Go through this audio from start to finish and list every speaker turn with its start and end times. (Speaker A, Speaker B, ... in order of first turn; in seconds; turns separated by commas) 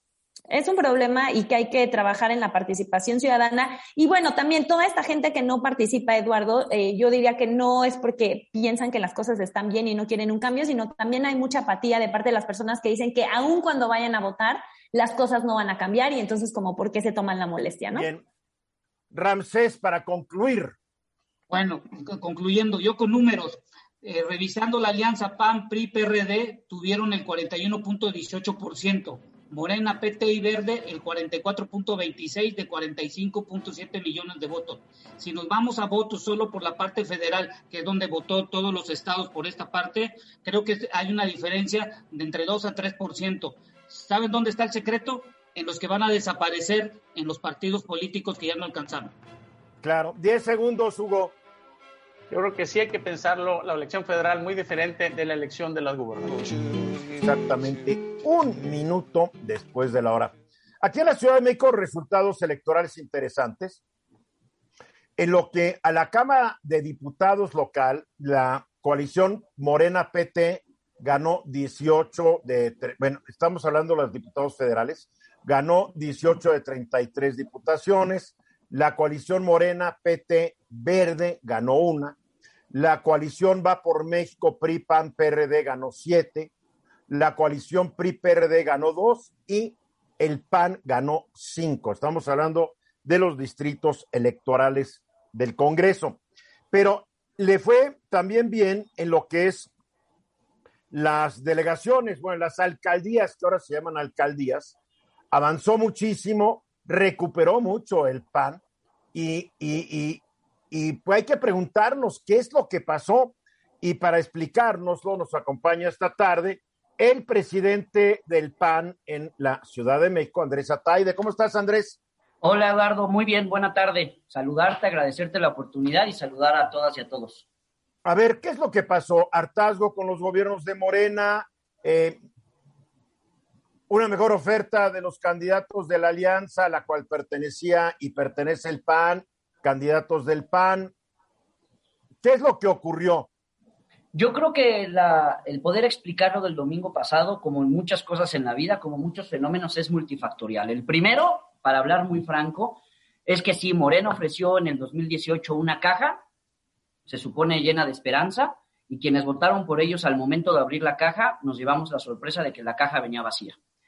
Speaker A: 0.5-18.1, Speaker B: 17.9-18.2, Speaker B: 19.1-20.8, Speaker C: 21.5-49.1, Speaker B: 49.8-51.3, Speaker D: 52.3-56.5, Speaker B: 57.2-63.8, Speaker B: 65.2-82.2, Speaker B: 82.7-86.5, Speaker B: 87.1-96.2, Speaker B: 96.7-99.7, Speaker B: 100.9-104.7, Speaker B: 105.3-108.6, Speaker B: 109.1-122.0, Speaker E: 122.4-127.4, Speaker B: 128.0-132.2, Speaker B: 133.9-140.9, Speaker B: 142.2-143.3, Speaker E: 144.1-156.2, Speaker E: 157.1-163.6